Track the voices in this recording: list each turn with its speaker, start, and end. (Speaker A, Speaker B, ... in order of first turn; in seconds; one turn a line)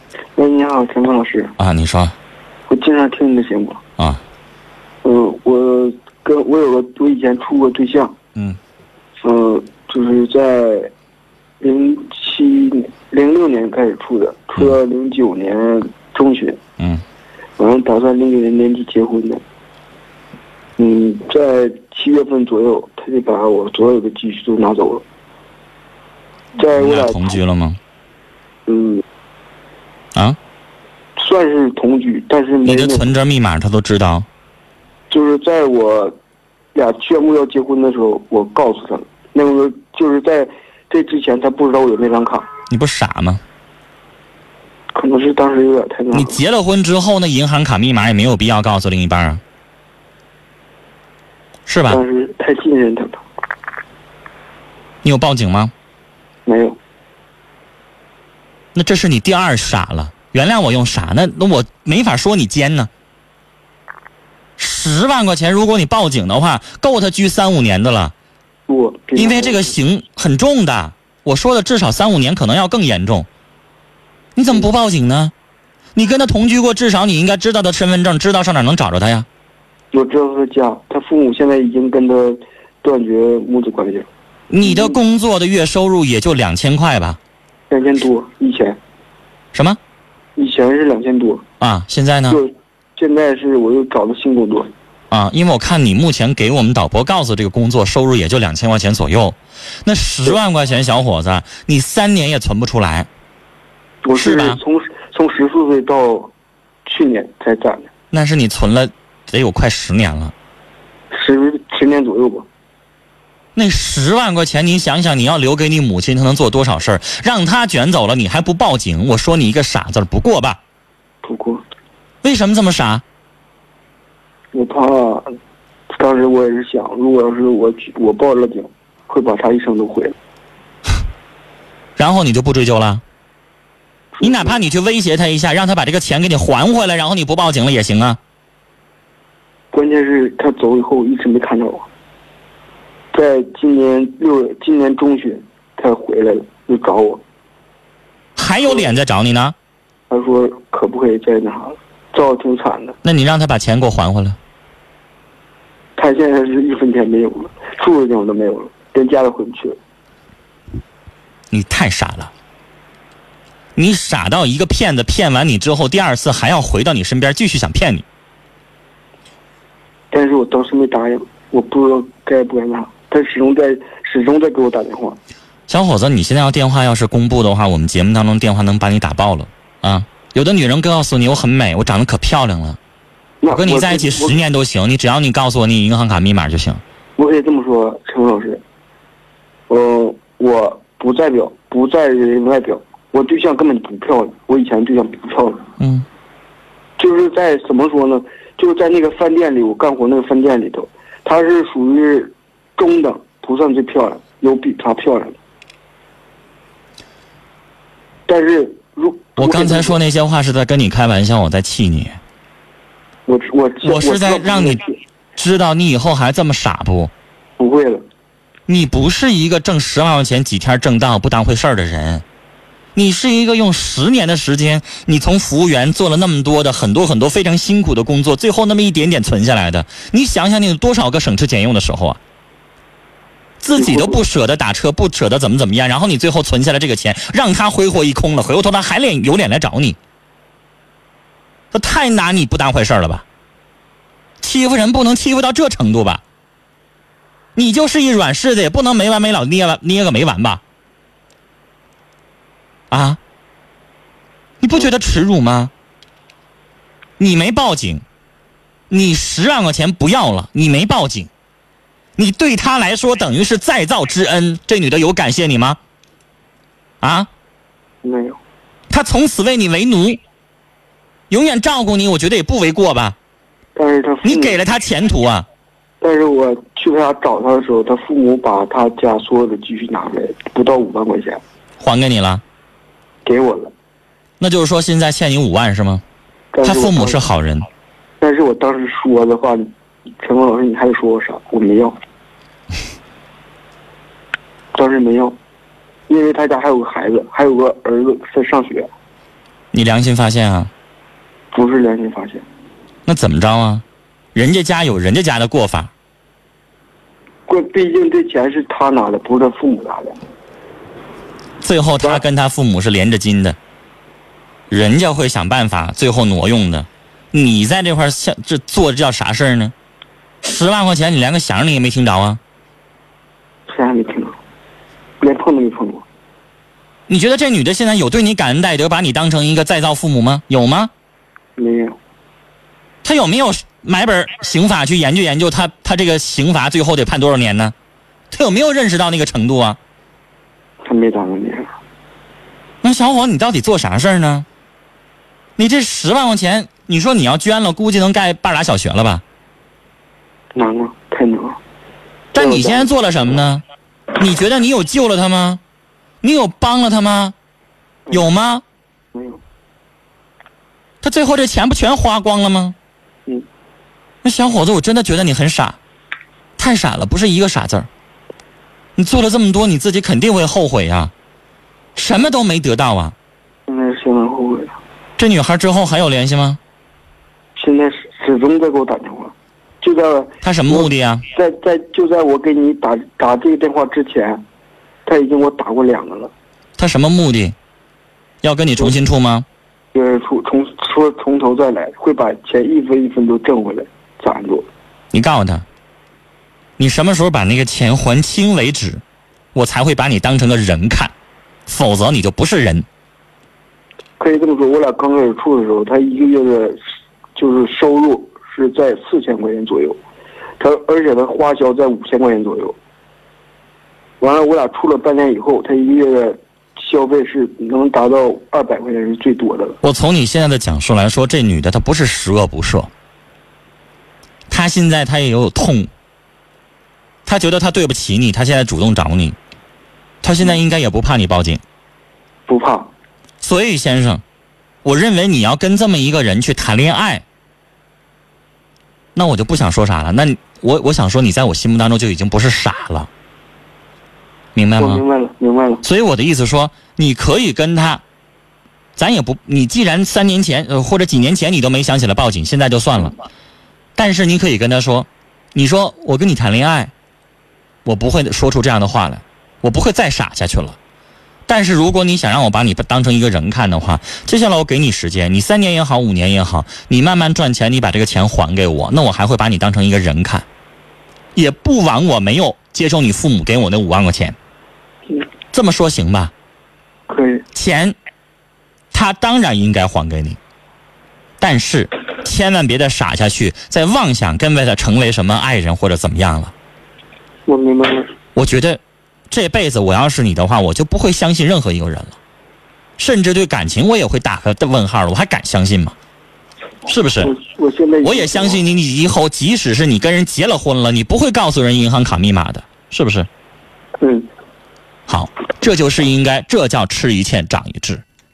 Speaker A: 0.3-1.5
Speaker B: 1.6-2.1
Speaker A: 2.7-3.8
Speaker A: 5.0-8.1
Speaker A: 9.2-10.9
Speaker A: 11.6-16.6
Speaker A: 17.6-19.4
Speaker A: 20.8-25.0
Speaker A: 26.6-27.4
Speaker B: 26.7-27.8
Speaker A: 28.7-29.0
Speaker A: 31.2-33.1
Speaker B: 32.6-34.3
Speaker A: 35.1-36.1
Speaker A: 36.7-42.5
Speaker B: 42.7-43.4
Speaker A: 44.9-46.4
Speaker B: 46.1-49.4
Speaker B: 51.7-52.0
Speaker A: 51.9-53.2
Speaker B: 55.0-55.7
Speaker A: 56.5-56.8
Speaker B: 58.7-62.9
Speaker B: 64.6-68.1
Speaker A: 68.7-69.7
Speaker B: 69.2-73.3
Speaker B: 74.3-75.3
Speaker B: 75.9-79.2
Speaker A: 79.9-84.1
Speaker B: 84.5-87.2
Speaker A: 84.6-85.0
Speaker A: 87.7-88.8
Speaker B: 89.5-89.8
Speaker A: 90.4-91.4
Speaker B: 91.6-92.4
Speaker A: 92.3-94.7
Speaker B: 95.1-103.1
Speaker A: 104.0-106.3
Speaker B: 104.1-104.6
Speaker A: 106.8-107.9
Speaker B: 108.1-110.3
Speaker A: 111.1-112.5
Speaker B: 113.5-120.6
Speaker A: 121.2-121.6
Speaker B: 122.2-123.0
Speaker A: 124.5-125.3
Speaker A: 125.9-130.1
Speaker B: 132.0-133.0
Speaker A: 134.1-134.6
Speaker B: 134.2-138.2
Speaker A: 139.7-141.9
Speaker A: 143.1-147.2
Speaker B: 148.3-149.5
Speaker A: 150.1-152.9
Speaker B: 153.0-154.4
Speaker A: 156.0-159.8
Speaker B: 161.5-162.3
Speaker B: 163.8-168.0
Speaker A: 170.1-175.2
Speaker B: 175.7-182.8
Speaker A: 183.4-184.4
Speaker B: 183.5-186.8
Speaker A: 187.2-188.6
Speaker A: 189.7-195.7
Speaker B: 195.8-196.0
Speaker A: 197.0-205.4
Speaker A: 208.3-210.0
Speaker B: 209.4-212.2
Speaker A: 213.3-215.0
Speaker B: 213.8-214.8
Speaker B: 215.4-217.1
Speaker A: 217.6-218.0
Speaker B: 218.7-222.2
Speaker B: 222.9-232.2
Speaker B: 233.6-240.0
Speaker A: 233.7-234.2
Speaker B: 241.7-243.2
Speaker B: 244.4-246.2
Speaker B: 247.6-250.6
Speaker B: 252.9-253.2
Speaker B: 254.6-255.7
Speaker B: 257.2-258.0
Speaker B: 258.9-261.3
Speaker B: 262.2-265.8
Speaker B: 267.0-267.3
Speaker A: 268.0-268.4
Speaker B: 268.9-270.2
Speaker B: 271.3-273.1
Speaker A: 273.8-274.6
Speaker B: 274.2-275.4
Speaker A: 276.0-281.4
Speaker B: 281.8-282.4
Speaker A: 283.2-283.7
Speaker B: 284.4-286.0
Speaker A: 286.5-287.2
Speaker B: 286.6-287.7
Speaker A: 288.2-289.7
Speaker A: 290.2-292.0
Speaker A: 294.7-295.4
Speaker A: 296.1-298.9
Speaker B: 299.7-300.7
Speaker A: 301.5-302.4
Speaker B: 303.1-303.8
Speaker B: 304.3-305.9
Speaker A: 307.5-310.2
Speaker B: 311.6-313.6
Speaker B: 314.7-319.7
Speaker B: 320.4-322.4
Speaker A: 323.7-324.4
Speaker A: 325.2-326.0
Speaker B: 327.1-330.9
Speaker A: 331.6-331.9
Speaker B: 333.0-337.7
Speaker B: 338.3-339.8
Speaker A: 340.8-341.7
Speaker B: 342.8-344.4
Speaker B: 345.6-349.2
Speaker A: 350.5-351.6
Speaker B: 352.3-353.6
Speaker A: 352.3-352.9
Speaker B: 354.1-355.6
Speaker B: 356.2-357.3
Speaker B: 358.1-358.6
Speaker A: 359.1-359.4
Speaker B: 361.0-362.7
Speaker B: 364.2-365.8
Speaker B: 366.6-367.9
Speaker B: 369.0-371.1
Speaker B: 371.9-373.1
Speaker A: 373.7-374.8
Speaker B: 375.2-376.6
Speaker A: 377.6-384.4
Speaker B: 380.4-381.2
Speaker A: 385.1-386.3
Speaker B: 386.8-387.5
Speaker B: 388.4-389.4
Speaker A: 389.9-394.7
Speaker B: 395.1-395.6
Speaker B: 396.8-399.0
Speaker B: 399.5-401.1
Speaker B: 401.7-402.9
Speaker A: 404.2-406.8
Speaker A: 407.4-410.0
Speaker A: 410.6-412.8
Speaker A: 414.2-419.8
Speaker B: 419.8-422.9
Speaker B: 424.5-425.9
Speaker B: 427.2-429.4
Speaker B: 430.2-431.6
Speaker A: 432.5-432.9
Speaker B: 433.4-434.2
Speaker B: 434.8-437.2
Speaker B: 439.1-443.1
Speaker B: 444.5-445.0
Speaker A: 444.8-445.8
Speaker B: 445.8-448.0
Speaker B: 449.0-453.2
Speaker B: 453.9-456.9
Speaker B: 457.8-460.8
Speaker B: 461.5-470.4
Speaker B: 471.4-474.3
Speaker B: 475.5-476.3
Speaker A: 477.1-477.4
Speaker B: 477.5-477.9
Speaker B: 478.9-480.4
Speaker B: 481.4-486.5
Speaker A: 487.5-488.1
Speaker B: 488.3-492.2
Speaker B: 493.0-495.9
Speaker B: 496.9-497.3
Speaker A: 497.2-498.6
Speaker B: 498.0-503.3
Speaker A: 504.0-504.3
Speaker B: 505.1-508.0